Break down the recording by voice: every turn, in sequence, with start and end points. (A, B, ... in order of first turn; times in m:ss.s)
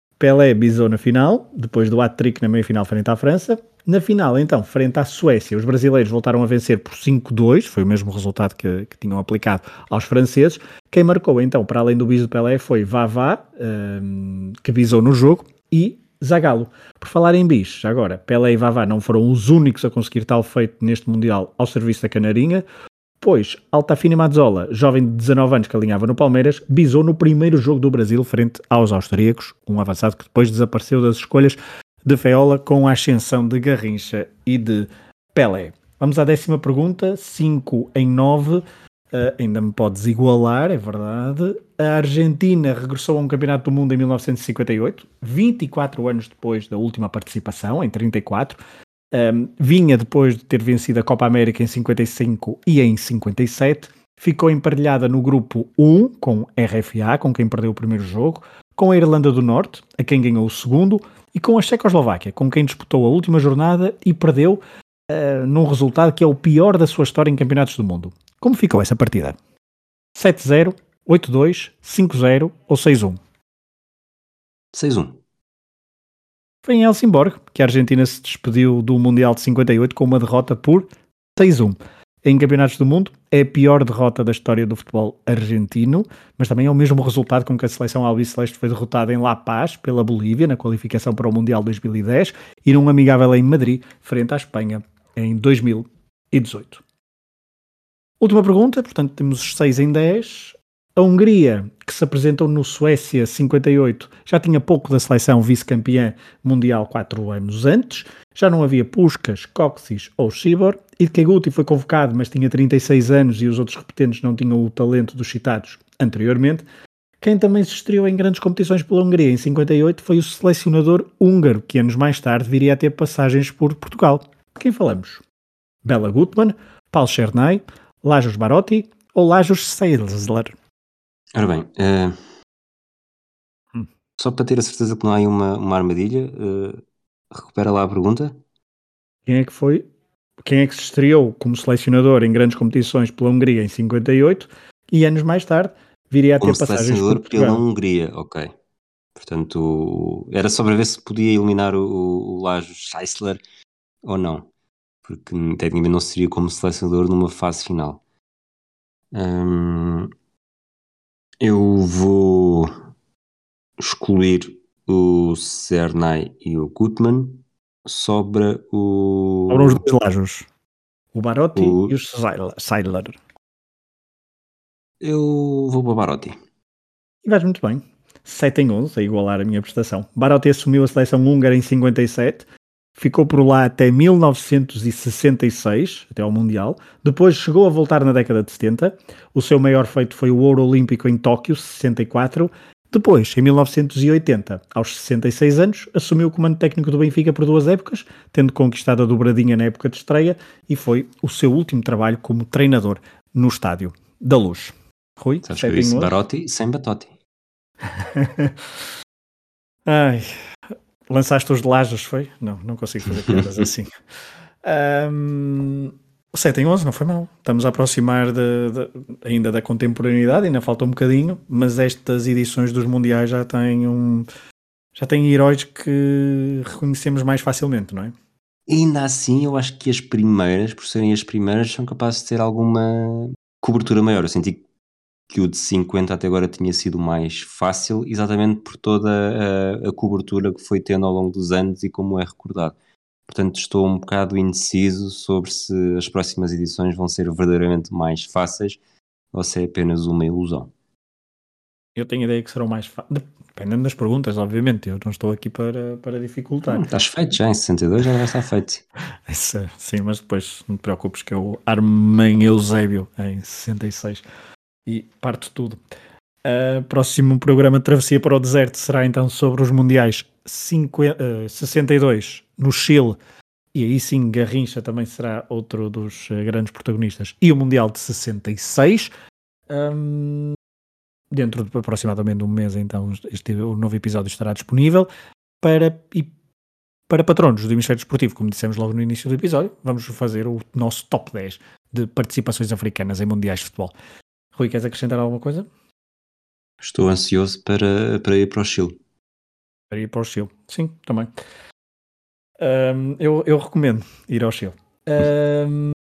0:00.2-0:22.6 A
0:23.2-0:48.6 A
0:49.1-1:09.4 A
1:10.2-1:13.2 A
1:14.7-1:15.2 B
1:16.6-1:36.8 A
1:38.2-1:56.6 A
1:57.2-2:05.2 A
2:05.8-2:10.6 A
2:11.4-2:12.2 B
2:14.2-2:18.4 B
2:19.3-2:19.8 A
2:20.4-2:27.6 A
2:26.4-2:28.5 B
2:29.2-2:33.4 B
2:34.0-2:34.5 B
2:35.0-2:38.0 B
2:39.1-2:40.1 B
2:41.4-2:42.7 B
2:43.8-2:49.8 B
2:49.5-2:50.5 A
2:51.2-2:53.2 A
2:51.6-2:51.9 B
2:55.0-2:56.4 B
2:57.2-3:02.5 A
3:03.0-3:26.1 A
3:25.4-3:27.1 B
3:27.9-3:28.7 A
3:29.9-3:30.4 A
3:31.1-3:33.9 A
3:34.6-3:44.3 A
3:45.0-3:48.1 A
3:48.7-3:54.6 B
3:55.3-4:02.8 B
4:03.3-4:08.8 B
4:09.3-4:10.7 B
4:12.0-4:16.8 A
4:16.7-4:18.8 B
4:19.3-4:24.2 A
4:24.9-4:25.8 A
4:26.4-4:33.2 A
4:33.7-4:39.1 A
4:39.7-4:40.6 A
4:41.3-4:45.1 A
4:45.6-4:46.3 A
4:47.1-4:53.9 A
4:54.6-4:55.7 A
4:56.8-4:59.0 B
4:59.9-5:01.3 A
5:02.6-5:05.9 A